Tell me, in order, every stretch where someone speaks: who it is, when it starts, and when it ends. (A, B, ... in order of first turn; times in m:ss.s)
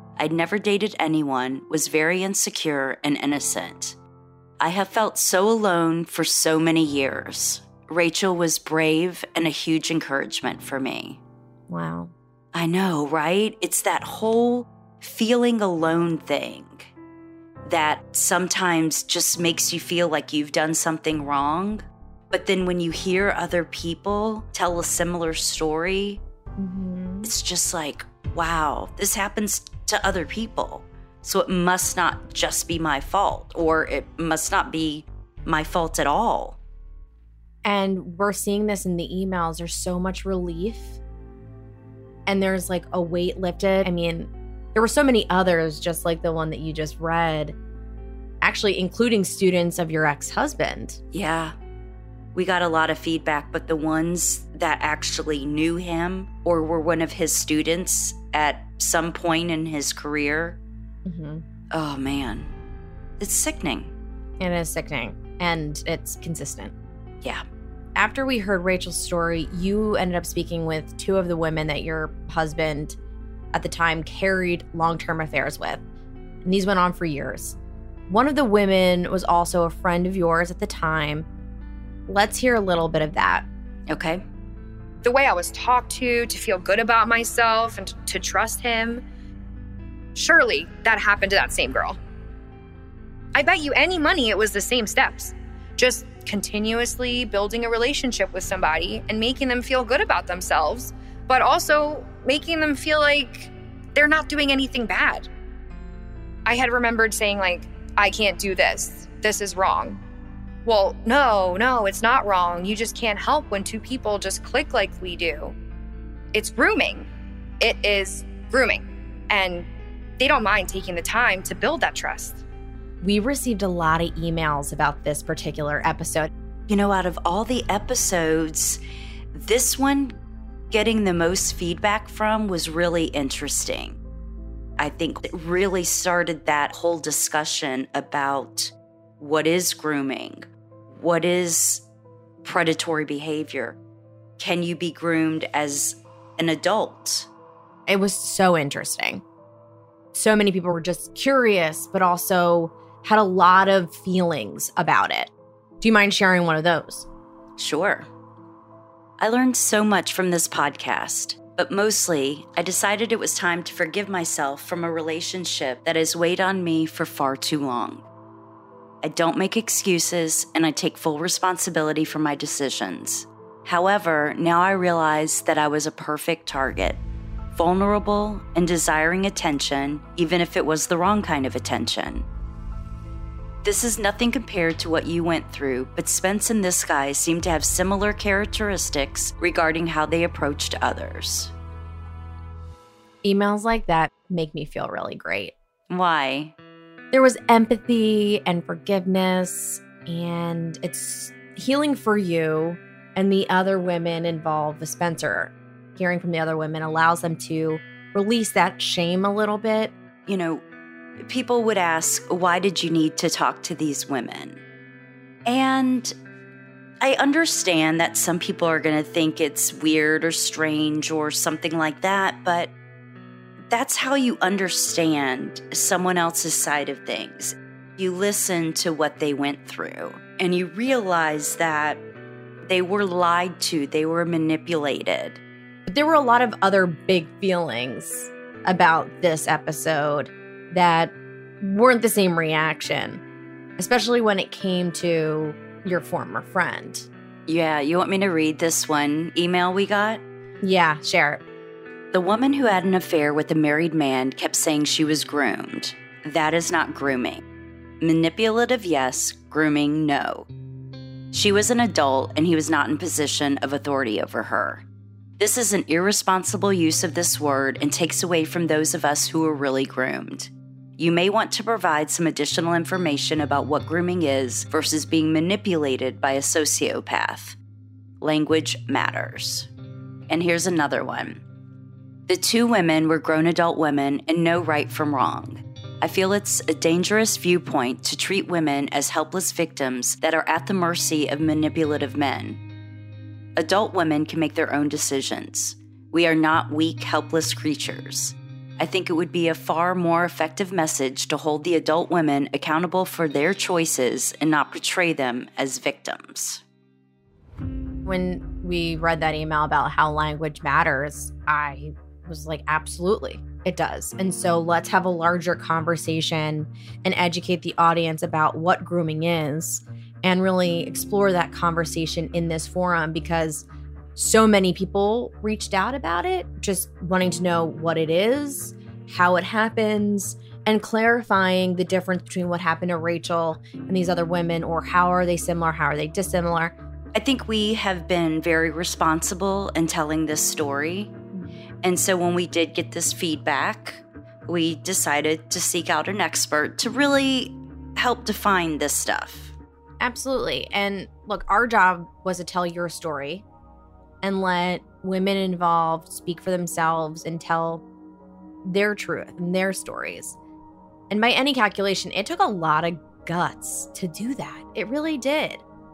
0:00.2-0:04.0 A
0:04.6-0:11.2 A
0:11.7-0:12.1 B
0:12.5-0:16.9 A
0:17.6-0:26.2 A
0:26.6-0:27.3 B
0:27.2-0:36.6 A
0:37.6-0:41.0 B
0:42.2-0:47.6 B
0:48.4-0:51.0 B
0:51.1-0:51.5 A
0:52.3-1:00.6 A
1:01.0-1:01.4 B
1:01.7-1:02.5 A
1:03.2-1:03.9 A
1:04.4-1:06.7 B
1:07.9-1:13.0 B
1:13.5-1:15.8 B
1:16.4-1:17.6 B
1:18.1-1:21.3 B
1:22.1-1:23.5 B
1:23.9-1:24.2 A
1:25.0-1:29.0 C
1:30.1-1:32.0 C
1:33.3-1:45.3 C
1:46.4-1:50.0 C
1:50.6-1:55.5 C
1:56.3-1:57.1 C
1:57.6-1:59.7 C
2:00.2-2:02.4 C
2:03.0-2:06.3 B
2:06.7-2:08.8 A
2:09.3-2:10.1 A
2:10.7-2:14.0 A
2:14.8-2:21.8 A
2:22.4-2:23.8 A
2:24.4-2:27.3 A
2:27.9-2:29.2 B
2:30.1-2:37.1 B
2:37.6-2:38.1 A
2:39.2-2:48.0 A
2:49.0-2:57.0 A
2:57.5-3:02.2 A
3:03.6-3:11.5 A
3:13.2-3:15.5 B
3:15.9-3:16.5 A
3:17.1-3:29.9 B
3:30.3-3:30.6 A
3:31.2-3:34.6 A
3:35.4-3:36.1 A
3:37.0-3:42.7 A
3:43.7-3:52.0 A
3:52.6-3:55.4 A
3:55.9-4:03.2 B
4:03.8-4:07.1 B
4:07.5-4:10.2 A
4:10.6-4:11.4 B
4:12.1-4:17.4 A
4:18.0-4:20.5 A
4:21.3-4:24.8 A
4:25.4-4:37.6 A
4:38.2-4:39.7 A
4:40.3-4:41.4 A
4:42.3-4:52.6 A
4:53.6-5:06.6 A
5:08.0-5:23.6 B
5:24.2-5:36.7 B
5:37.1-5:41.1 A
5:41.8-5:49.5 A
5:50.0-5:53.4 B
5:54.2-5:57.8 B
5:58.6-6:00.4 B
6:01.1-6:05.6 B